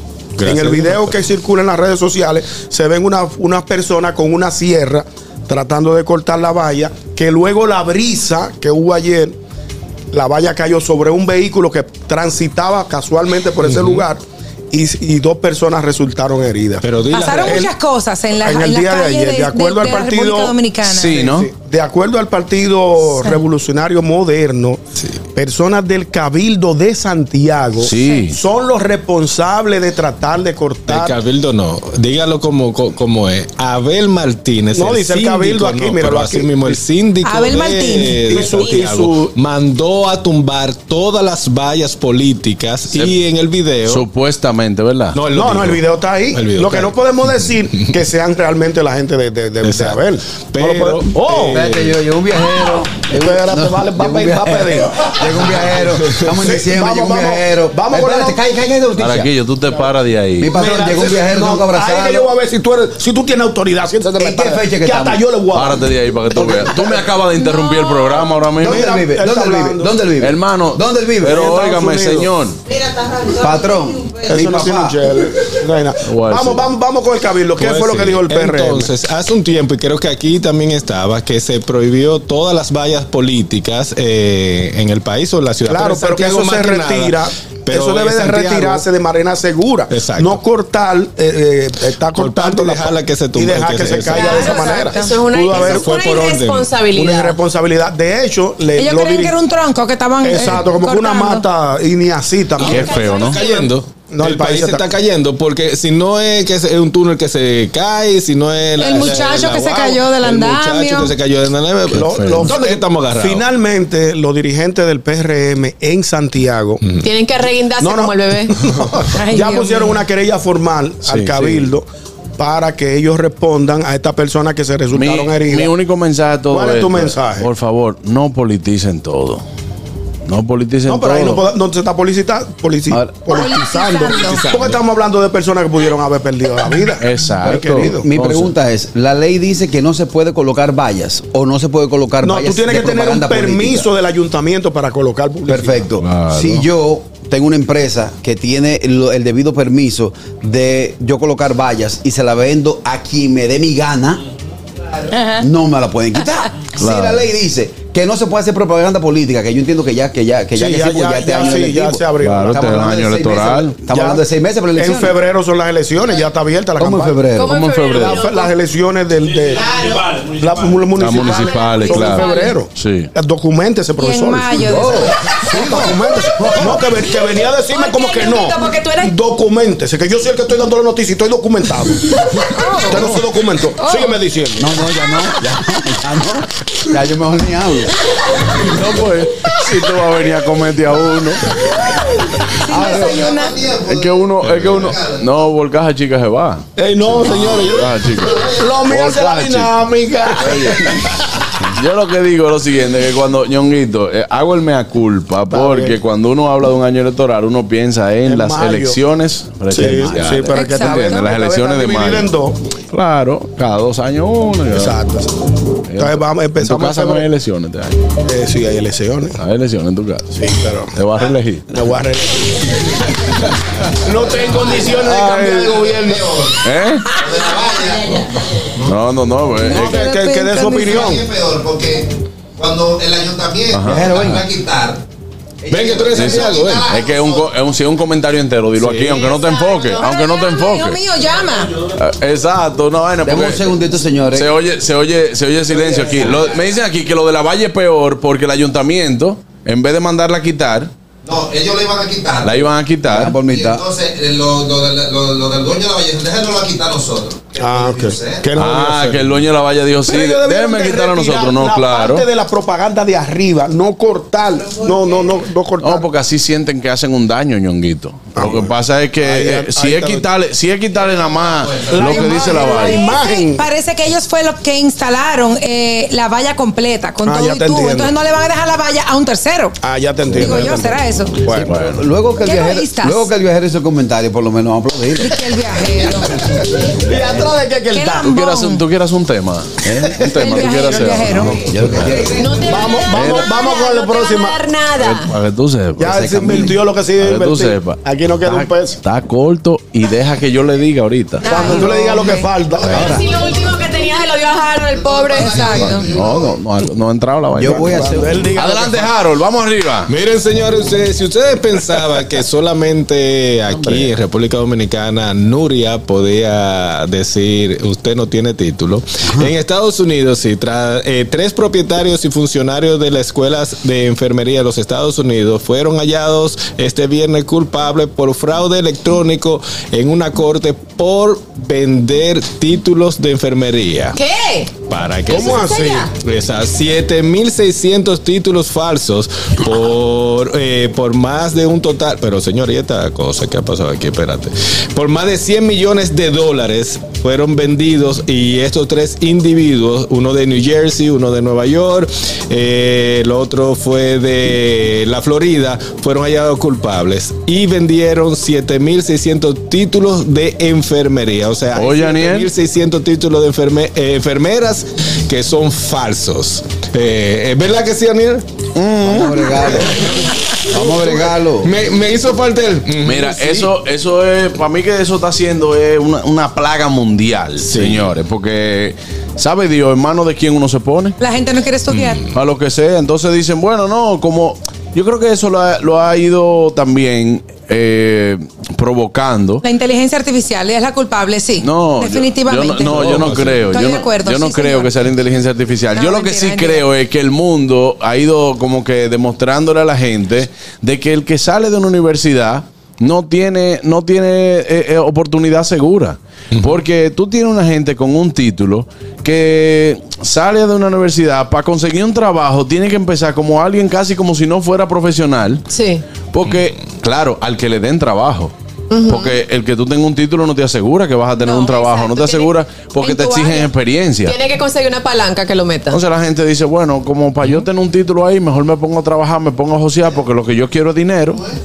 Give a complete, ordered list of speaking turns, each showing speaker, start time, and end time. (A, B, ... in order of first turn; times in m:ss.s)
0:00.4-0:01.1 A
0:00.4-0:09.4 B
0:10.1-0:16.8 B
0:13.6-0:14.0 A
0:16.8-0:17.6 A
0:17.1-0:21.2 C
0:17.4-0:17.7 B
0:18.4-0:20.6 B
0:20.9-0:21.5 D
0:21.1-0:24.8 B
0:25.3-0:31.2 B
0:27.8-0:28.4 D
0:30.9-0:44.0 A
0:34.7-0:36.8 B
0:37.2-0:38.4 C
0:38.3-0:39.3 B
0:43.9-0:45.2 D
0:45.1-0:46.9 A
0:45.3-0:51.6 B
0:49.6-0:50.0 A
0:50.5-0:51.9 A
0:51.5-0:59.3 E
0:53.2-0:55.2 B
0:56.4-0:58.4 B
0:59.0-1:00.5 D
1:00.4-1:02.3 E
1:00.5-1:06.7 B
1:04.2-1:05.2 E
1:05.5-1:08.9 D
1:06.4-1:06.9 E
1:08.6-1:11.5 E
1:08.6-1:09.9 B
1:10.2-1:12.6 D
1:11.3-1:12.3 B
1:13.3-1:15.0 E
1:14.3-1:18.9 B
1:16.0-1:16.7 D
1:17.6-1:28.8 A
1:25.7-1:35.9 B
1:29.9-1:30.4 A
1:32.1-1:34.4 A
1:34.1-1:37.4 F
1:34.1-1:35.1 C
1:35.5-1:36.7 A
1:36.9-1:39.4 B
1:38.8-1:41.4 C
1:40.2-1:43.0 B
1:42.6-1:43.4 D
1:42.6-1:43.7 F
1:42.7-1:53.5 A
1:44.1-1:44.9 B
1:48.8-1:51.1 C
1:51.9-1:56.8 B
1:51.9-1:52.5 D
1:57.0-1:58.6 F
1:57.8-2:01.8 B
1:59.1-2:00.0 C
2:01.0-2:01.7 D
2:02.4-2:05.7 B
2:04.9-2:09.4 D
2:06.5-2:07.5 B
2:10.3-2:11.4 D
2:10.9-2:18.0 B
2:12.9-2:13.2 E
2:13.3-2:14.4 C
2:14.2-2:14.8 A
2:17.0-2:18.5 D
2:17.4-2:23.9 E
2:22.2-2:25.8 B
2:25.5-2:34.2 E
2:26.0-2:26.7 D
2:35.1-2:35.4 C
2:35.4-2:45.2 E
2:36.8-2:37.2 D
2:40.6-2:42.9 B
2:42.2-2:43.8 D
2:43.9-2:44.2 B
2:44.8-2:47.2 B
2:46.8-2:47.6 E
2:47.4-2:48.5 F
2:47.4-2:48.2 D
2:47.9-2:54.9 B
2:51.0-2:53.1 D
2:51.2-2:52.6 F
2:54.0-2:55.2 C
2:54.6-2:56.8 E
2:55.5-3:04.7 B
2:57.3-2:59.1 F
3:02.5-3:03.0 C
3:03.8-3:04.2 C
3:04.6-3:08.0 E
3:08.7-3:11.6 D
3:12.6-3:13.6 C
3:12.7-3:15.2 G
3:13.9-3:16.6 D
3:16.8-3:17.8 B
3:17.2-3:19.7 D
3:17.3-3:18.8 G
3:18.5-3:21.0 B
3:20.3-3:20.8 D
3:21.8-3:32.3 D
3:25.5-3:26.0 B
3:28.3-3:29.0 B
3:29.7-3:32.6 B
3:29.8-3:30.3 E
3:30.5-3:31.2 C
3:32.9-3:35.0 D
3:34.7-3:35.4 B
3:35.9-3:38.0 D
3:36.0-3:37.2 B
3:38.2-3:39.4 B
3:39.4-3:41.7 D
3:40.4-3:40.9 B
3:41.7-3:42.9 B
3:43.9-3:46.2 B
3:44.3-3:49.0 G
3:45.0-3:45.8 D
3:46.6-3:47.1 D
3:48.8-3:50.0 D
3:49.7-3:51.3 B
3:49.7-3:51.1 C
3:50.8-3:55.0 G
3:53.7-3:54.1 D
3:53.9-3:54.5 E
3:55.7-3:57.5 G
3:55.7-3:56.9 A
3:56.1-4:01.0 D
3:58.8-3:59.1 A
3:59.2-4:00.2 F
3:59.4-4:01.7 C
4:02.0-4:10.9 D
4:03.2-4:04.5 E
4:06.1-4:06.4 E
4:06.2-4:06.6 G
4:11.2-4:12.7 G
4:12.4-4:13.4 D
4:13.1-4:13.8 E
4:13.4-4:18.5 G
4:17.6-4:19.2 B
4:18.6-4:22.2 D
4:20.1-4:26.1 B
4:25.8-4:33.0 D
4:28.4-4:30.2 B
4:31.9-4:33.6 B
4:32.2-4:39.8 C
4:37.2-4:38.1 B
4:39.8-4:41.7 B
4:40.4-4:41.3 C
4:41.5-4:45.5 E
4:41.6-4:42.0 D
4:42.4-4:43.3 C
4:45.2-4:46.5 C
4:46.3-4:47.4 E
4:47.0-4:48.3 B
4:47.9-4:48.8 C
4:48.2-4:52.3 D
4:49.8-4:50.6 E
4:50.4-4:51.6 C
4:51.2-4:52.7 E
4:52.3-4:55.3 F
4:52.6-4:54.6 B
4:53.1-4:53.5 D
4:55.0-5:01.8 D
4:56.0-4:59.0 B
4:56.0-4:56.8 E
5:01.4-5:02.5 C
5:01.4-5:03.2 B
5:02.8-5:03.2 D
5:02.9-5:03.2 E
5:02.9-5:05.6 F
5:04.9-5:06.6 G
5:05.4-5:06.0 C
5:05.7-5:10.1 D
5:07.6-5:08.4 E
5:07.6-5:09.1 B
5:10.1-5:34.2 A
5:34.1-5:34.7 F
5:34.9-6:08.4 A
5:35.3-5:36.1 B
5:35.3-5:36.1 F
6:01.7-6:02.5 D
6:08.8-6:09.6 D
6:09.0-6:11.7 E
6:10.8-6:13.3 A
6:13.0-6:21.2 D
6:17.6-6:18.1 A
6:21.2-6:22.2 C
6:21.9-6:22.3 A
6:22.3-6:29.6 D
6:29.6-6:34.9 C
6:31.6-6:55.6 D
6:32.8-6:33.8 A
6:36.0-6:36.9 C
6:55.7-6:56.0 F
6:56.3-6:58.5 D
6:58.9-6:59.4 F
6:59.1-7:04.4 D
7:01.4-7:03.7 F
7:04.2-7:06.0 F
7:05.9-7:11.4 D